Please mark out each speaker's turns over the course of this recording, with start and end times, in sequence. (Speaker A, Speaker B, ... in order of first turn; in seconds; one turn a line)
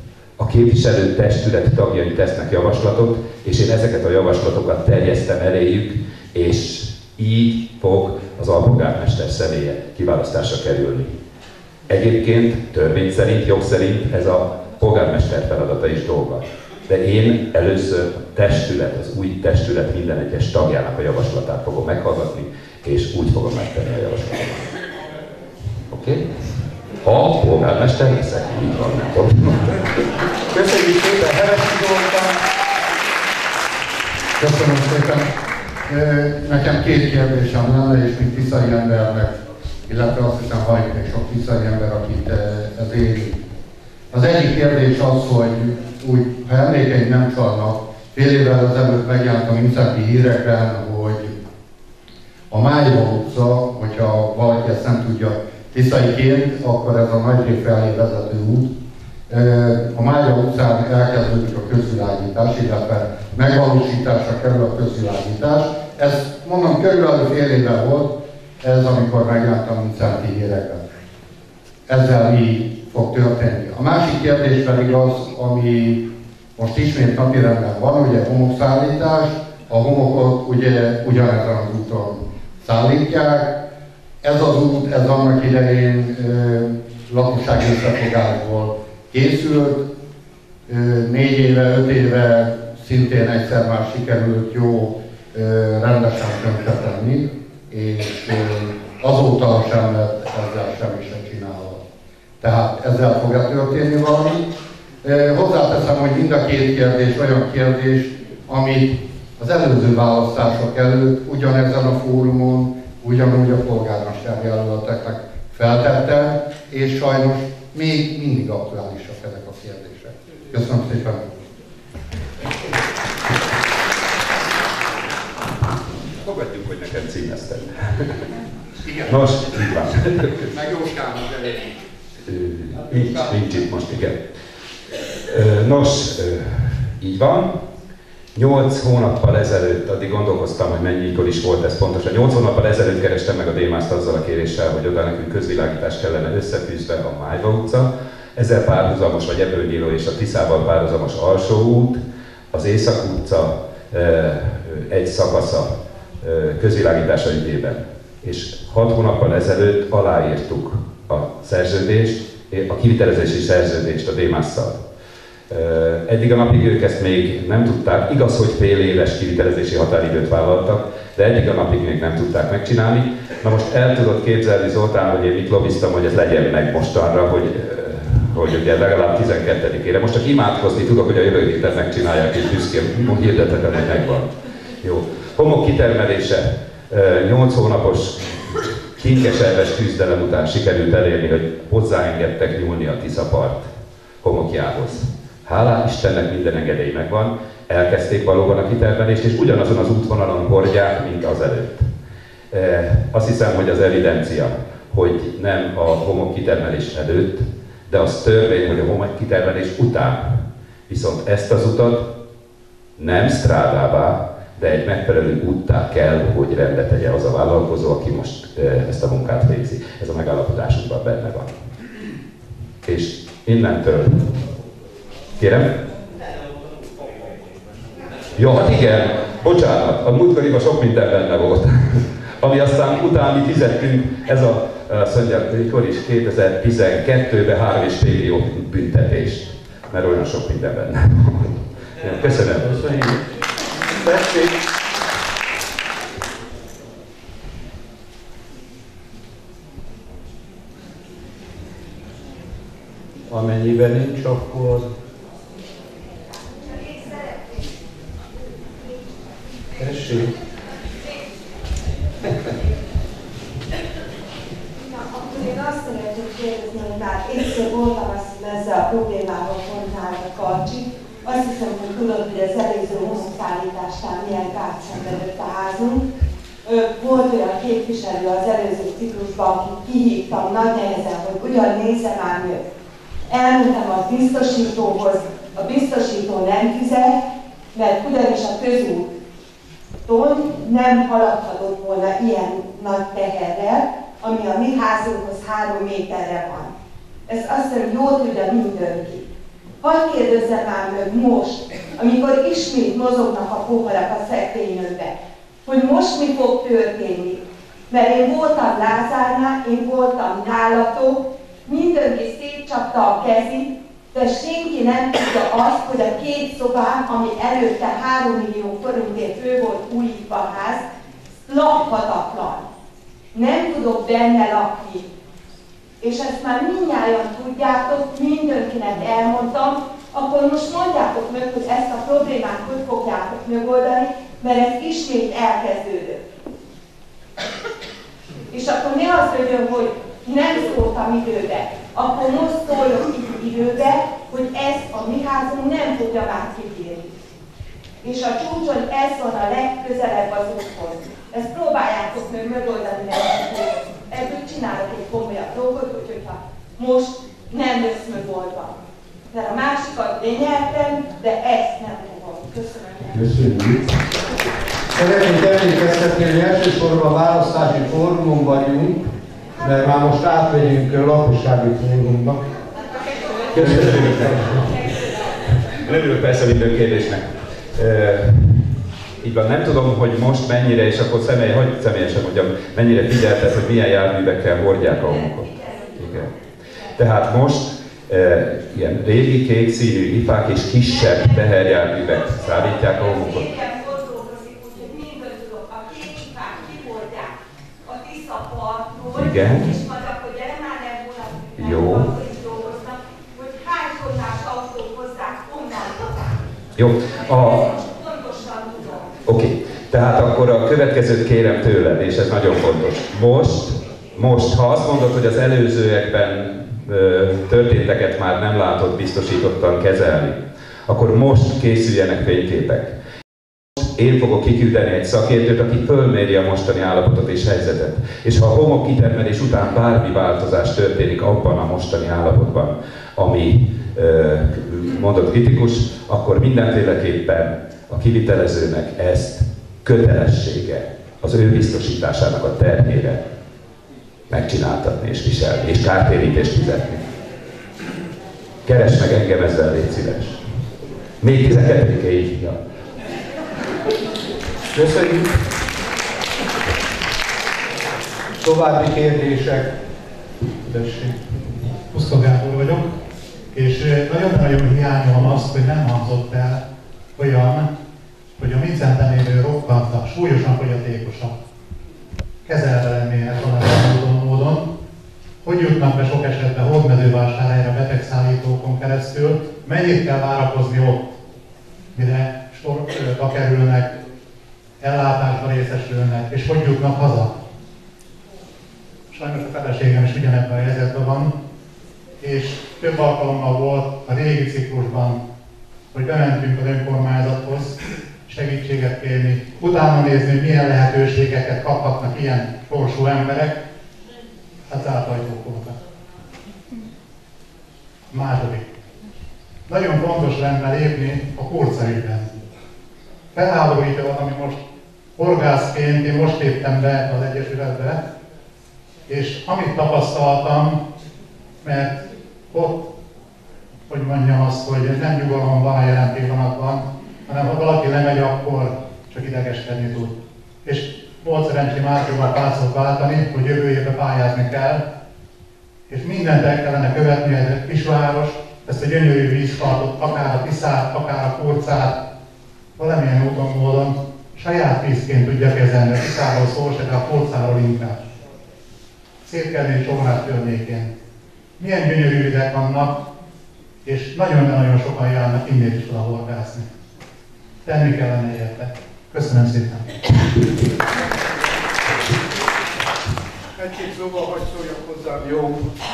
Speaker A: 0.4-11.2
Speaker A: 11.9-24.7
Speaker A: 25.9-26.3
Speaker A: 27.0-29.8
Speaker B: 30.5-32.4
Speaker C: 34.4-35.3
Speaker C: 35.9-43.4
Speaker C: 44.1-51.4
Speaker C: 52.5-58.7
Speaker C: 59.3-70.8
Speaker C: 71.9-83.6
Speaker C: 84.2-89.9
Speaker C: 90.7-101.8
Speaker C: 102.4-121.4
Speaker A: 126.2-128.2
Speaker C: 128.9-129.2
Speaker A: 129.1-130.5
Speaker C: 130.5-131.7
Speaker A: 132.3-134.2
Speaker A: 135.3-137.6
Speaker A: 138.3-164.8
Speaker A: 165.5-193.7
Speaker A: 194.2-201.9
Speaker A: 202.5-212.1
Speaker A: 213.0-221.5
Speaker A: 222.8-224.4
Speaker A: 225.4-225.8
Speaker A: 228.3-242.8
Speaker B: 242.6-243.3
Speaker B: 244.0-244.5
Speaker B: 253.3-254.9
Speaker D: 256.4-257.7
Speaker B: 259.8-260.3
Speaker D: 264.8-276.0
Speaker D: 276.6-282.6
Speaker D: 283.3-287.2
Speaker D: 287.7-289.1
Speaker D: 290.1-296.7
Speaker D: 297.3-299.3
Speaker D: 299.8-320.9
Speaker D: 321.4-322.7
Speaker D: 323.3-325.1
Speaker D: 326.0-336.2
Speaker D: 338.5-347.1
Speaker D: 348.0-358.8
Speaker D: 359.3-363.1
Speaker B: 363.1-363.8
Speaker B: 364.9-369.1
Speaker B: 369.6-372.4
Speaker B: 373.6-374.7
Speaker A: 373.6-374.4
Speaker A: 375.8-378.6
Speaker A: 379.2-386.3
Speaker D: 385.0-386.0
Speaker A: 387.0-393.5
Speaker D: 390.8-397.3
Speaker D: 397.9-406.4
Speaker A: 399.1-399.7
Speaker A: 401.6-402.1
Speaker A: 406.8-407.6
Speaker D: 407.1-409.1
Speaker A: 409.3-422.9
Speaker A: 423.8-443.2
Speaker A: 444.3-447.1
Speaker A: 448.6-450.4
Speaker A: 451.2-452.6
Speaker B: 454.7-455.4
Speaker B: 458.4-459.8
Speaker B: 460.7-461.2
Speaker E: 461.9-462.9
Speaker E: 463.5-466.6
Speaker E: 467.2-467.7
Speaker E: 468.4-471.3
Speaker E: 472.4-474.7
Speaker E: 475.4-481.1
Speaker E: 481.9-483.9
Speaker E: 484.8-487.3
Speaker E: 489.1-491.3
Speaker E: 492.2-495.2
Speaker E: 495.9-503.6
Speaker E: 504.7-505.8
Speaker E: 508.1-508.6
Speaker E: 509.7-512.3
Speaker E: 513.3-514.5
Speaker E: 515.2-518.0
Speaker E: 519.1-520.8
Speaker E: 521.6-522.9
Speaker E: 523.9-534.8
Speaker E: 535.9-542.0
Speaker E: 542.8-548.0
Speaker E: 549.2-550.9
Speaker E: 551.6-553.0
Speaker E: 553.9-556.7
Speaker E: 557.6-559.9
Speaker F: 563.6-565.5